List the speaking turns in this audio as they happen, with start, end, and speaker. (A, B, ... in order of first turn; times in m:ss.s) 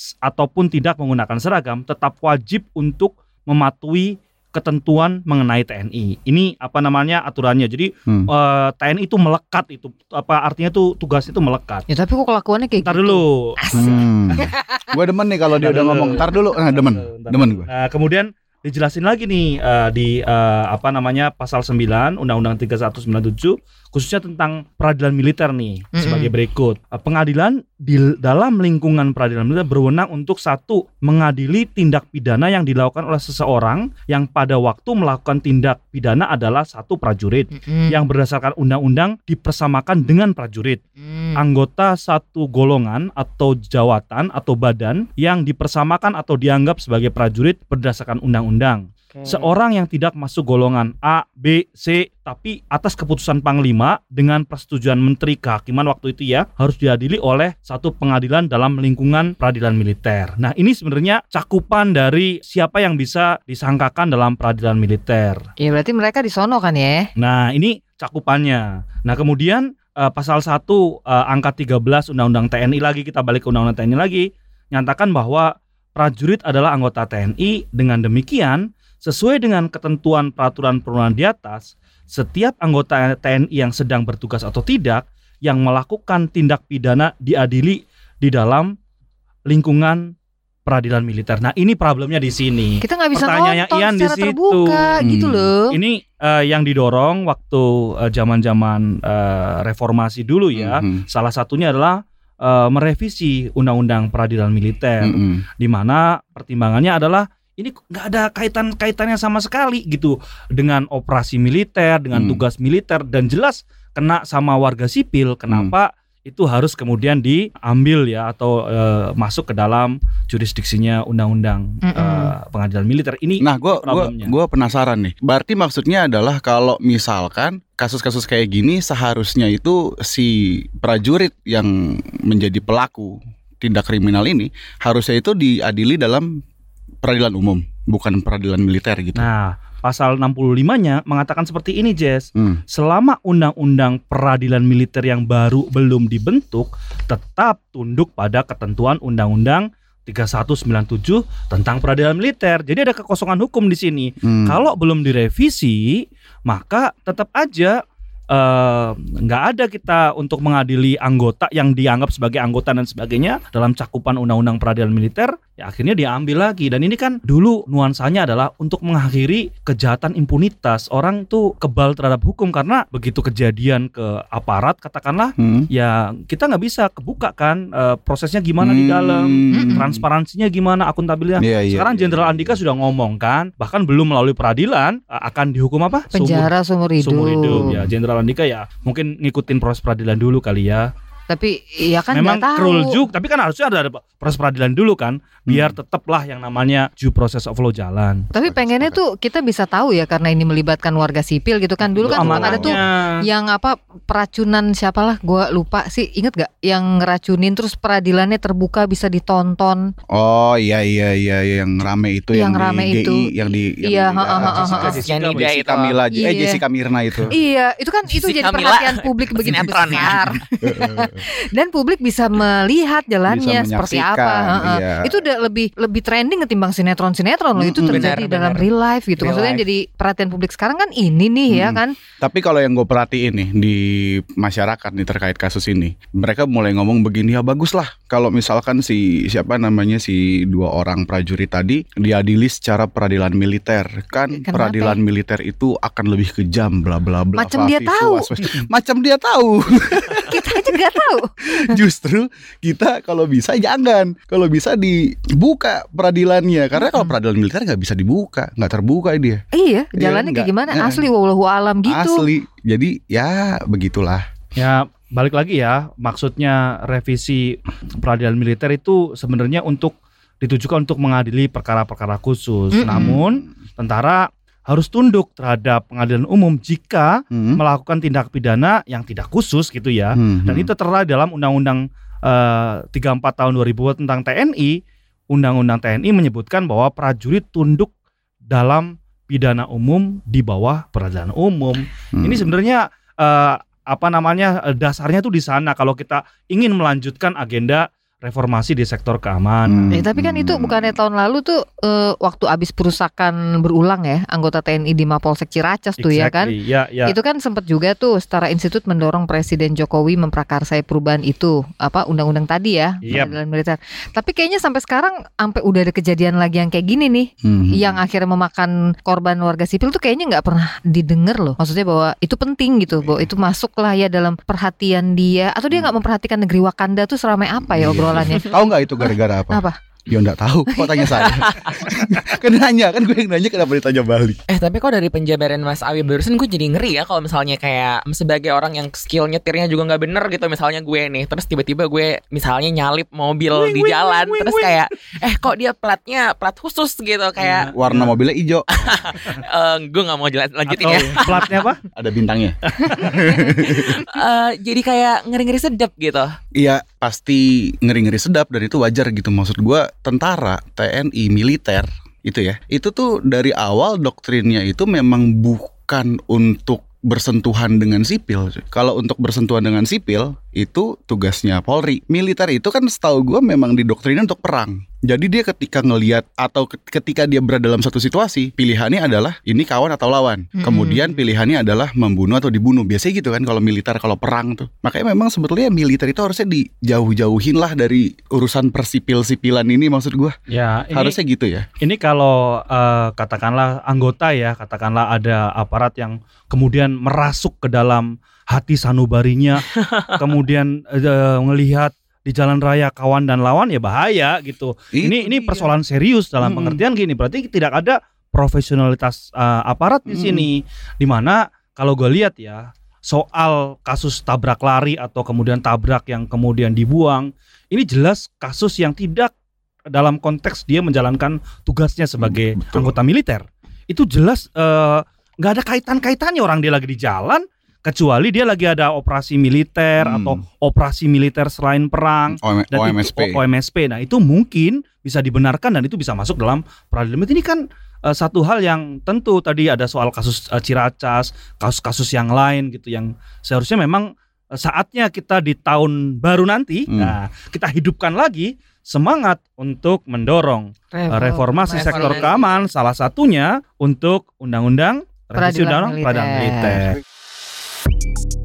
0:00.2-0:11.9 A
0:11.9-0:14.9 B
0:12.8-0:14.1 A
0:13.7-0:17.7 C
0:15.6-0:40.8 A
0:26.0-0:26.3 B
0:37.6-0:38.0 B
0:41.0-0:41.4 B
0:41.4-1:05.4 A
0:49.1-0:49.5 B
1:05.6-1:07.1 B
1:07.2-1:28.8 A
1:29.5-1:30.1 A
1:30.7-1:34.9 A
1:32.8-1:35.8 B
1:35.0-1:35.5 C
1:35.7-2:04.3 A
1:40.5-1:41.0 C
1:45.0-1:45.4 C
1:52.1-1:52.4 C
1:55.5-1:55.7 C
2:01.8-2:02.3 B
2:03.4-2:16.3 C
2:17.0-2:19.3 C
2:19.2-2:37.8 A
2:22.4-2:22.6 C
2:34.2-2:34.6 C
2:38.3-3:10.9 A
2:55.4-2:55.7 C
2:58.6-3:00.0 C
2:59.5-2:59.8 B
3:01.4-3:02.6 C
3:06.1-3:07.8 B
3:11.3-3:13.0 B
3:12.1-3:18.3 A
3:15.5-3:15.8 C
3:18.3-3:19.0 C
3:18.3-3:29.9 B
3:22.0-3:22.8 C
3:22.0-3:23.1 A
3:30.1-3:37.3 C
3:32.3-3:33.3 B
3:33.8-3:35.0 B
3:34.4-3:35.5 A
3:35.0-3:36.0 D
3:36.1-3:36.6 B
3:37.3-3:51.9 B
3:38.1-3:40.2 D
3:40.6-3:41.2 C
3:43.3-3:45.0 C
3:47.6-3:48.1 C
3:47.7-3:48.7 D
3:49.2-3:49.6 D
3:51.5-4:10.7 C
4:04.3-4:05.0 B
4:07.4-4:08.3 B
4:10.3-4:11.4 B
4:11.5-4:19.4 C
4:16.8-4:17.1 B
4:19.5-4:22.3 B
4:20.0-4:21.0 C
4:21.9-4:24.2 C
4:24.6-4:44.8 A
4:32.8-4:33.2 B
4:32.9-4:33.3 C
4:37.3-4:37.6 C
4:40.2-4:40.7 C
4:45.3-4:47.9 A
4:48.5-4:59.9 A
4:52.2-4:52.5 C
4:59.7-5:01.0 C
4:59.9-5:06.5 B
5:06.0-5:07.2 A
5:07.1-5:28.5 B
5:13.0-5:13.4 A
5:17.4-5:18.0 C
5:27.6-5:34.4 C
5:30.7-5:31.4 B
5:34.5-5:47.7 D
5:43.5-5:44.8 A
5:47.4-5:48.2 A
5:47.7-5:49.0 C
5:48.8-5:51.6 D
5:50.7-5:51.8 A
5:51.9-5:54.0 C
5:52.7-5:53.4 A
5:53.4-5:56.4 D
5:56.6-6:30.4 C
6:20.6-6:21.2 B
6:30.5-6:31.2 A
6:30.9-6:31.7 C
6:31.8-6:59.3 A
6:39.8-6:40.1 D
6:44.9-6:45.7 C
6:46.4-6:46.8 C
6:50.1-6:50.5 C
6:59.9-7:37.0 A
7:02.2-7:02.9 C
7:10.0-7:10.4 C
7:12.3-7:13.4 C
7:26.9-7:27.2 C
7:30.9-7:32.4 B
7:31.7-7:32.3 D
7:35.4-7:36.8 B